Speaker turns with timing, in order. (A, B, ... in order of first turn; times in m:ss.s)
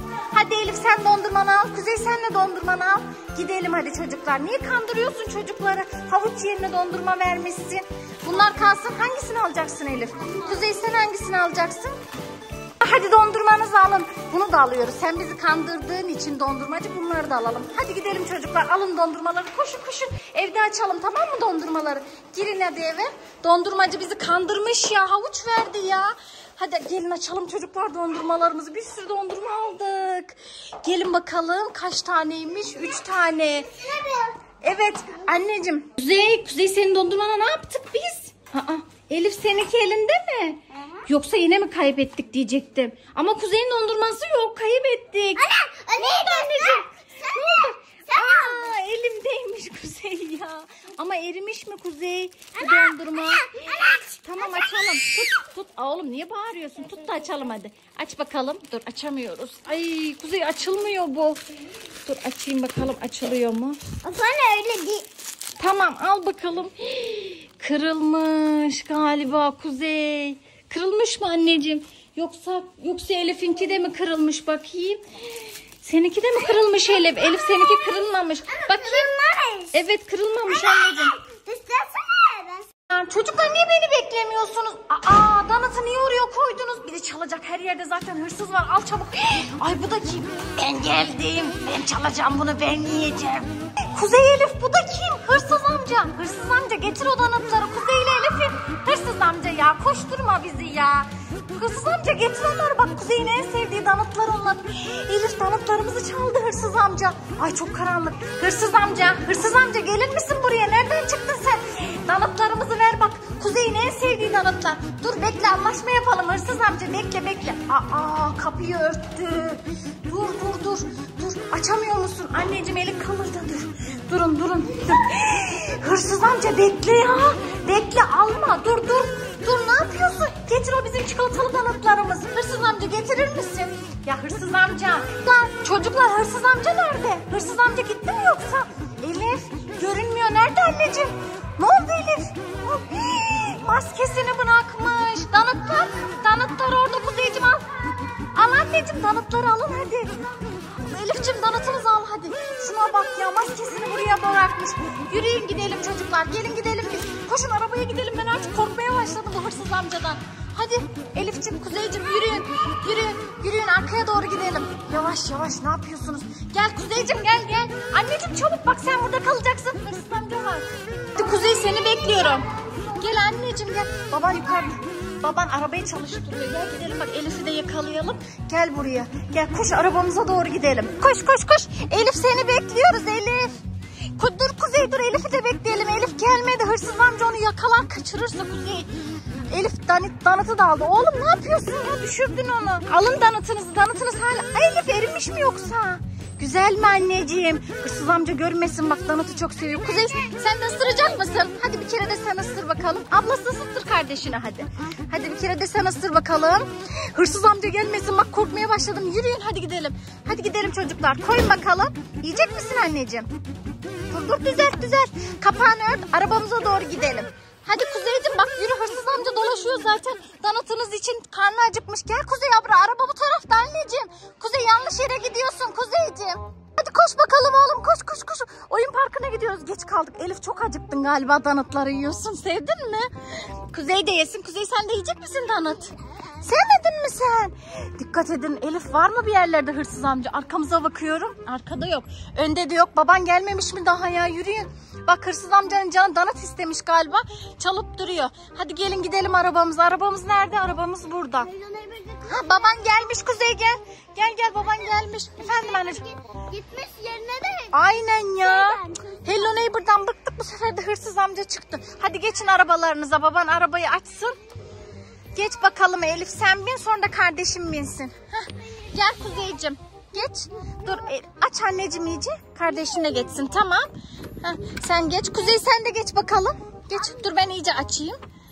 0:00.3-0:11.9 A
0:12.8-0:33.7 A
0:33.8-0:34.4 B
0:34.6-1:01.4 A
0:45.4-0:47.4 B
0:48.1-0:48.6 B
1:02.0-1:03.8 A
1:04.0-1:05.1 B
1:05.6-1:15.0 A
1:15.8-1:19.1 A
1:18.6-1:19.7 B
1:19.7-1:21.2 A
1:20.5-1:22.7 B
1:22.9-2:27.6 A
2:28.3-2:30.2 A
2:30.8-3:03.5 A
3:04.2-3:08.9 A
3:09.5-3:33.3 A
3:34.1-4:11.5 A
4:11.5-4:12.8 B
4:12.2-4:16.0 A
4:15.4-4:17.7 B
4:17.7-4:24.3 A
4:18.4-4:19.2 B
4:25.3-4:33.9 A
4:34.4-4:38.2 A